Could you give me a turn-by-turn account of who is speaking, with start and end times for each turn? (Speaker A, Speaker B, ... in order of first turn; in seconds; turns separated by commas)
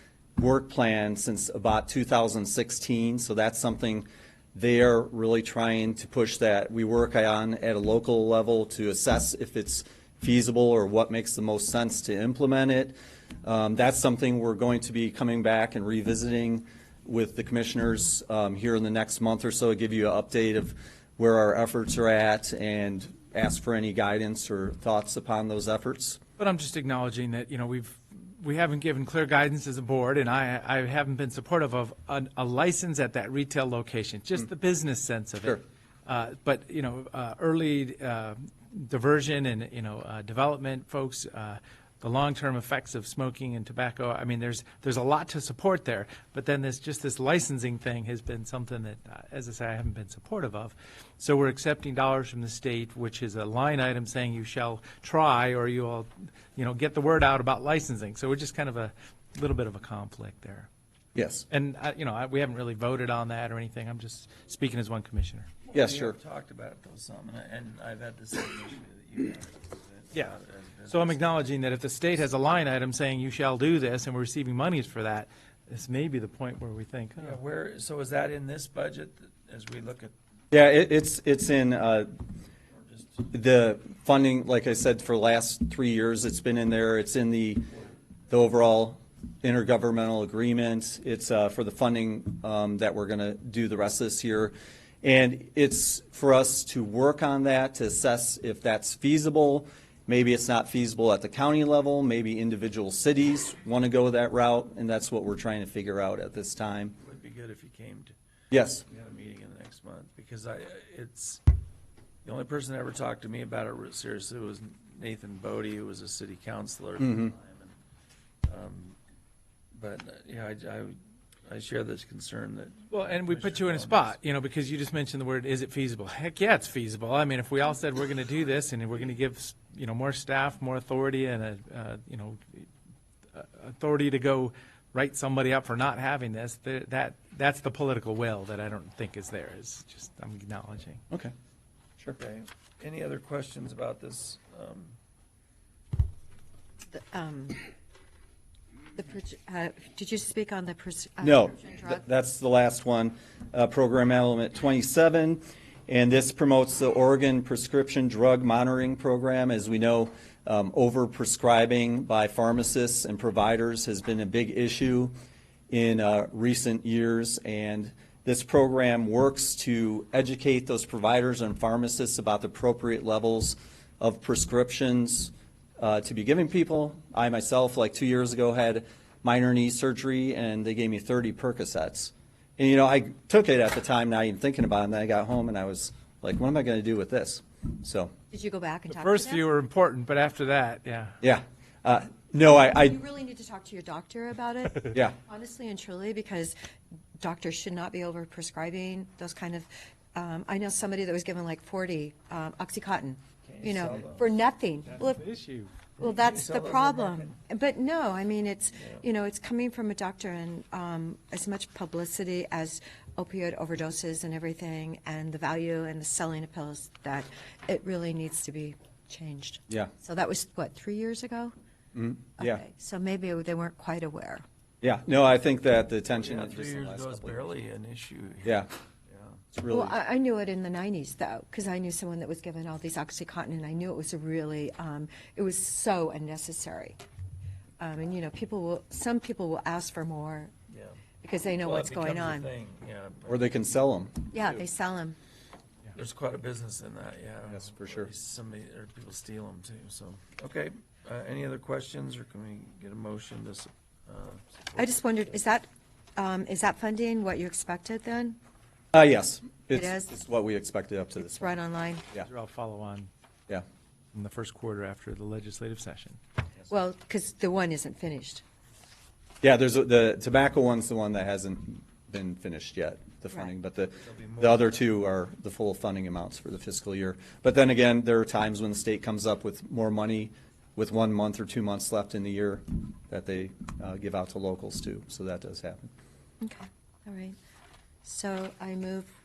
Speaker A: 0.4-26.2, Speaker B: 26.4-60.7, Speaker A: 61.1-61.5, Speaker B: 61.5-65.5, Speaker A: 65.7-66.2, Speaker C: 65.7-71.2, Speaker B: 70.9-77.3, Speaker C: 77.2-80.1, Speaker A: 80.5-82.1, Speaker C: 82.7-83.2, Speaker A: 83.3-87.7, Speaker A: 88.3-107.0, Speaker C: 107.0-108.1, Speaker A: 108.5-108.8, Speaker C: 108.8-111.4, Speaker C: 112.2-117.7, Speaker A: 117.0-117.3, Speaker C: 118.4-119.0, Speaker C: 119.7-124.1, Speaker B: 122.9-132.7, Speaker B: 133.3-141.0, Speaker C: 142.1-144.9, Speaker D: 146.9-147.7, Speaker D: 148.9-152.0, Speaker A: 151.2-165.1, Speaker A: 165.7-188.1, Speaker D: 188.3-189.4, Speaker B: 188.9-191.2, Speaker A: 191.2-193.0, Speaker D: 192.7-196.5, Speaker D: 197.2-205.2, Speaker C: 203.4-204.3, Speaker B: 204.9-205.7, Speaker C: 206.0-207.3, Speaker D: 206.0-221.5, Speaker A: 221.9-222.6, Speaker D: 222.3-224.4, Speaker A: 224.8-227.4, Speaker C: 226.1-229.4, Speaker A: 229.5-229.9, Speaker D: 229.7-237.0, Speaker D: 237.8-240.5, Speaker C: 240.7-241.0, Speaker D: 241.2-242.5, Speaker C: 241.6-243.4, Speaker A: 243.3-244.6, Speaker D: 244.3-245.2, Speaker C: 245.9-255.3, Speaker A: 247.6-248.1, Speaker D: 254.8-258.4, Speaker A: 258.9-261.5, Speaker D: 259.7-260.1, Speaker D: 261.2-262.1, Speaker B: 262.1-263.1, Speaker B: 264.1-266.2, Speaker D: 266.7-268.4, Speaker A: 269.4-285.9, Speaker C: 274.0-274.8, Speaker D: 286.4-287.4, Speaker D: 288.0-289.1